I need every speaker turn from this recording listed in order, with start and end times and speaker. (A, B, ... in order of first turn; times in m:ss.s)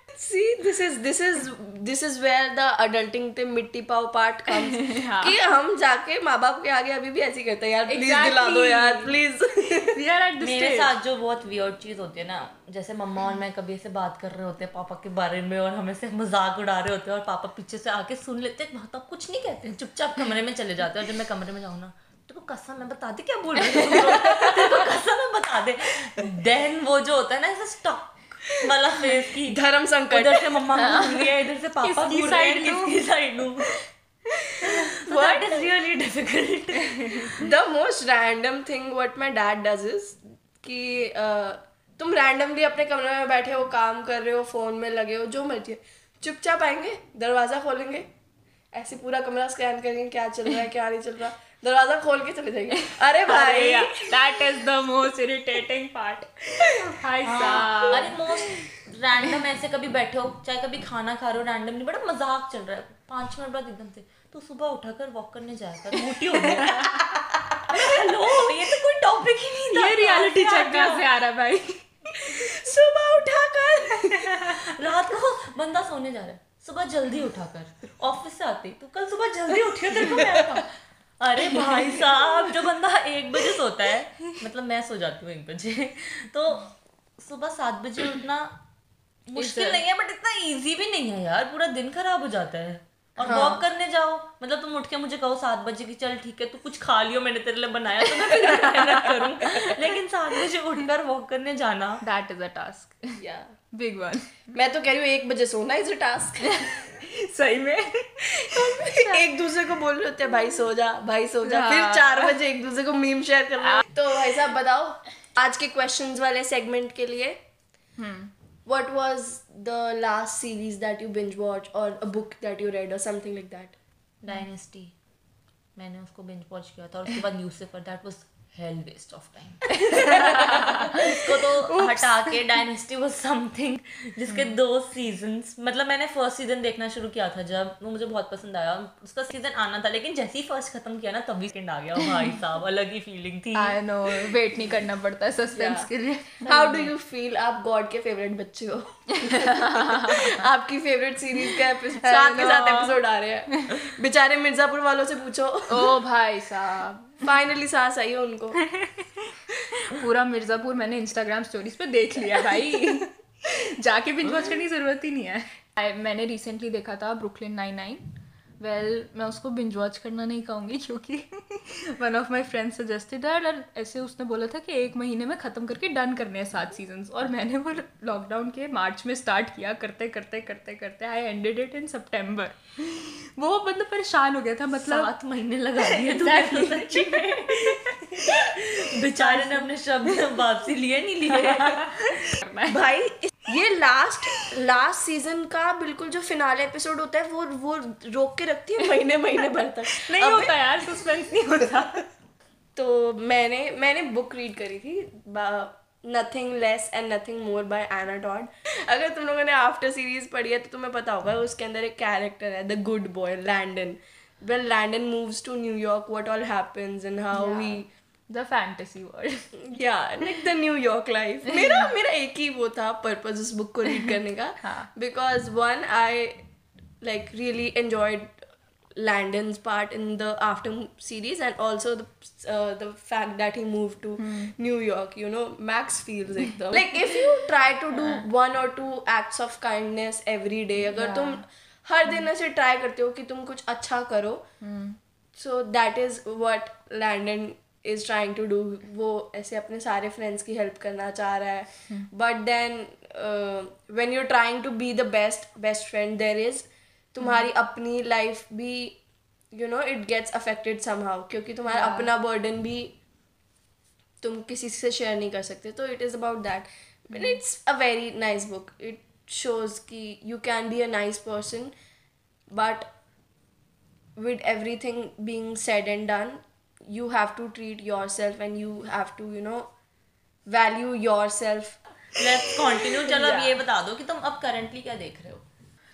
0:00.2-0:09.9 A
0:04.5-0:05.4 B
0:07.9-0:09.1 B
0:09.8-0:10.9 B
0:10.4-0:29.6 C
0:23.7-0:24.3 B
0:29.5-0:30.6 A
0:30.1-0:33.7 C
0:30.7-0:33.0 B
0:34.8-0:37.4 C
0:35.1-0:35.6 A
0:37.4-0:48.1 A
0:48.7-0:54.1 A
0:52.9-0:58.6 B
0:57.2-1:07.0 C
1:06.6-1:06.9 B
1:07.7-1:11.0 C
1:09.7-1:12.4 B
1:12.2-1:14.5 A
1:14.4-1:28.5 C
1:29.3-1:42.0 C
1:29.4-1:29.8 B
1:33.3-1:33.6 A
1:38.3-1:39.7 B
1:42.0-1:43.2 B
1:43.2-1:43.5 A
1:43.7-1:44.5 B
1:44.5-1:46.5 A
1:46.4-1:49.2 B
1:48.4-1:57.4 A
1:51.4-1:52.3 B
1:58.0-1:58.3 B
1:58.6-2:03.8 A
2:04.2-2:04.9 C
2:05.8-2:23.8 C
2:09.8-2:12.4 B
2:22.0-2:22.3 B
2:23.5-2:26.9 B
2:25.5-2:25.9 A
2:26.4-2:35.9 A
2:29.2-2:30.4 B
2:32.0-2:33.0 B
2:35.7-2:37.3 B
2:37.2-2:38.6 A
2:38.7-2:48.0 B
2:48.6-3:05.1 B
3:04.7-3:12.1 C
3:05.8-3:08.6 B
3:09.1-3:10.3 B
3:11.4-3:12.8 B
3:12.7-3:20.5 A
3:19.9-3:22.0 B
3:22.8-3:37.9 A
3:37.3-3:39.5 B
3:39.7-3:46.4 A
3:44.6-3:44.9 B
3:47.0-3:48.3 A
3:49.0-4:04.4 A
3:54.2-3:54.5 B
4:00.9-4:01.4 B
4:04.6-4:05.0 B
4:05.3-4:19.0 A
4:19.5-4:22.9 A
4:21.7-4:22.1 B
4:24.2-4:31.7 A
4:32.5-4:32.9 A
4:34.2-4:39.7 A
4:40.5-4:41.8 A
4:42.2-4:45.4 C
4:43.0-4:43.6 B